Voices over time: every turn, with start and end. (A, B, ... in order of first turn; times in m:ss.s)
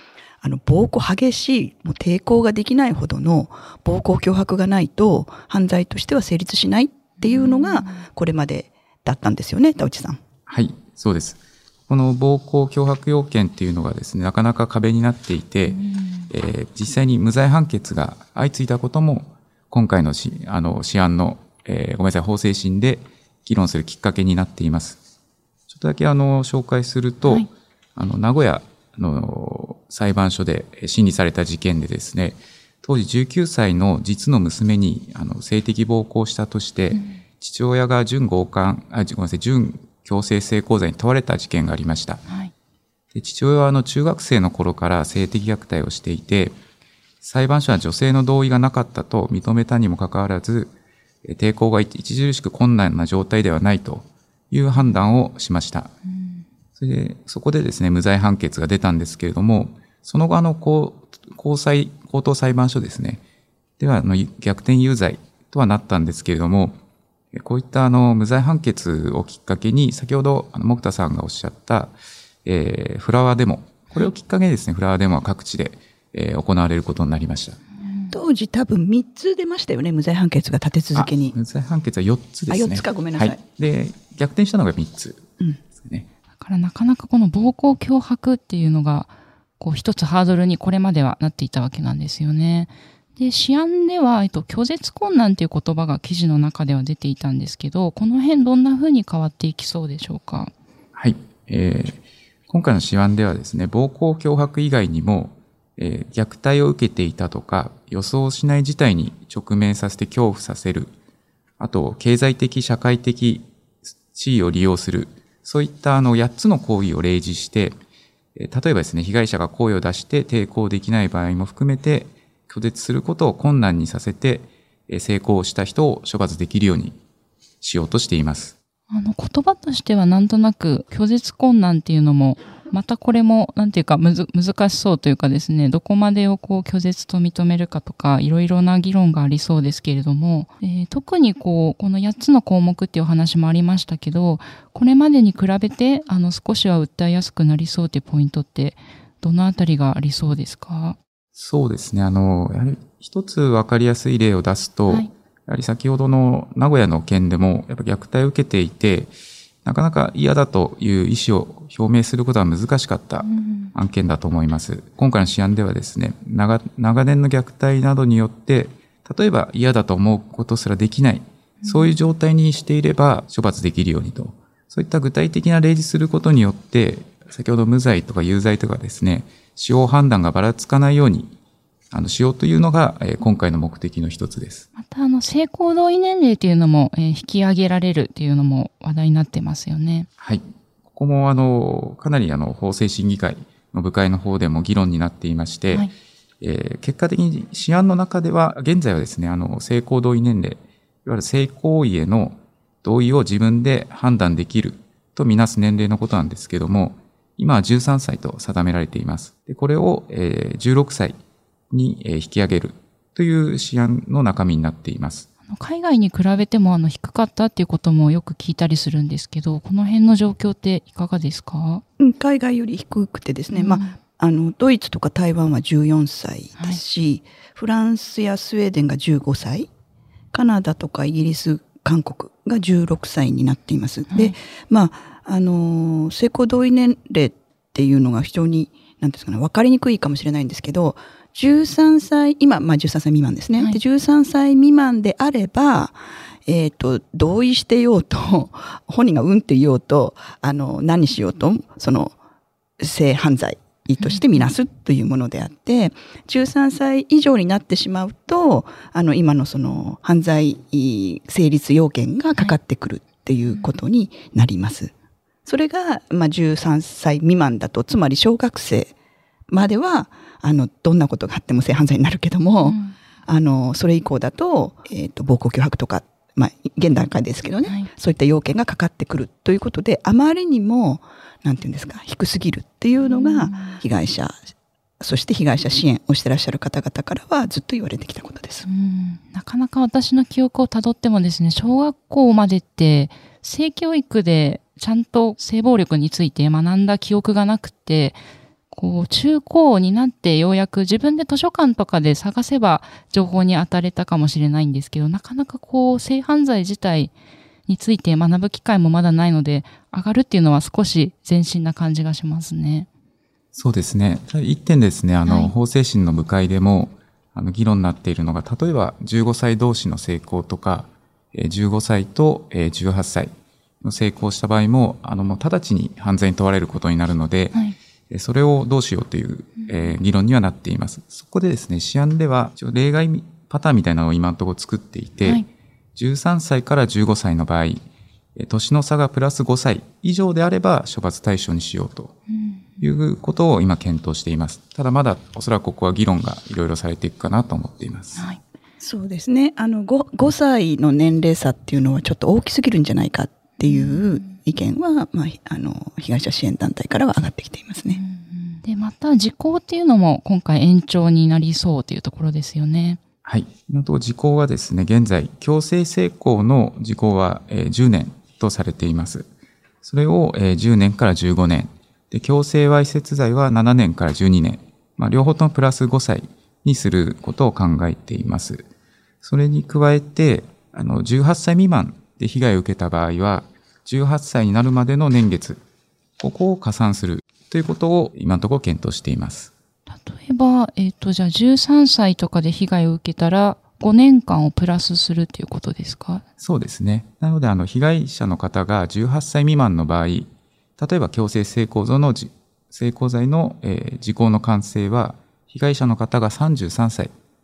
0:00.4-0:10.2 A
0:07.2-0:08.0 B
0:10.5-0:25.0 C
0:15.7-0:16.3 B
0:25.7-0:42.2 C
0:36.9-0:37.2 B
0:42.3-0:42.5 B
0:43.1-0:46.5 C
0:47.2-0:50.7 C
0:51.2-0:55.9 C
0:56.1-0:56.4 B
0:56.8-1:03.2 C
1:03.8-1:06.8 C
1:07.3-1:11.9 C
1:12.4-1:17.6 C
1:17.8-1:18.1 B
1:18.1-1:21.3 A
1:20.9-1:26.0 C
1:22.5-1:23.4 A
1:26.4-1:40.5 B
1:40.9-1:50.9 C
1:51.6-1:53.5 C
1:54.1-1:57.8 C
1:58.4-2:07.0 C
2:07.6-2:08.5 C
2:08.9-2:31.0 B
2:31.4-2:39.1 C
2:39.6-3:01.3 C
2:43.2-2:43.7 B
2:51.6-2:51.9 B
3:01.9-3:04.6 C
3:04.8-3:10.1 B
3:10.2-3:15.9 C
3:16.4-3:31.2 C
3:31.7-3:35.3 C
3:35.5-3:41.8 B
3:42.0-3:49.7 A
3:43.5-3:43.9 B
3:50.3-4:12.1 A
3:54.1-3:54.4 B
4:12.8-4:24.9 A
4:25.4-4:28.9 A
4:29.5-4:44.5 A
4:32.6-4:32.9 B
4:43.0-4:43.8 B
4:45.0-4:48.7 A
4:48.6-5:07.1 B
5:07.7-5:12.9 B
5:13.5-5:27.6 C
5:15.2-5:15.5 B
5:28.1-5:35.4 C
5:36.0-5:37.8 C
5:38.4-5:42.1 C
5:42.3-5:42.8 B
5:42.8-5:48.2 C
5:48.8-5:58.0 A
5:53.6-5:54.3 B
5:57.9-6:03.0 B
6:03.2-6:09.3 C
6:09.8-6:18.6 C
6:19.2-6:25.6 C
6:26.2-6:29.5 C
6:29.9-6:36.2 B
6:36.4-6:47.1 C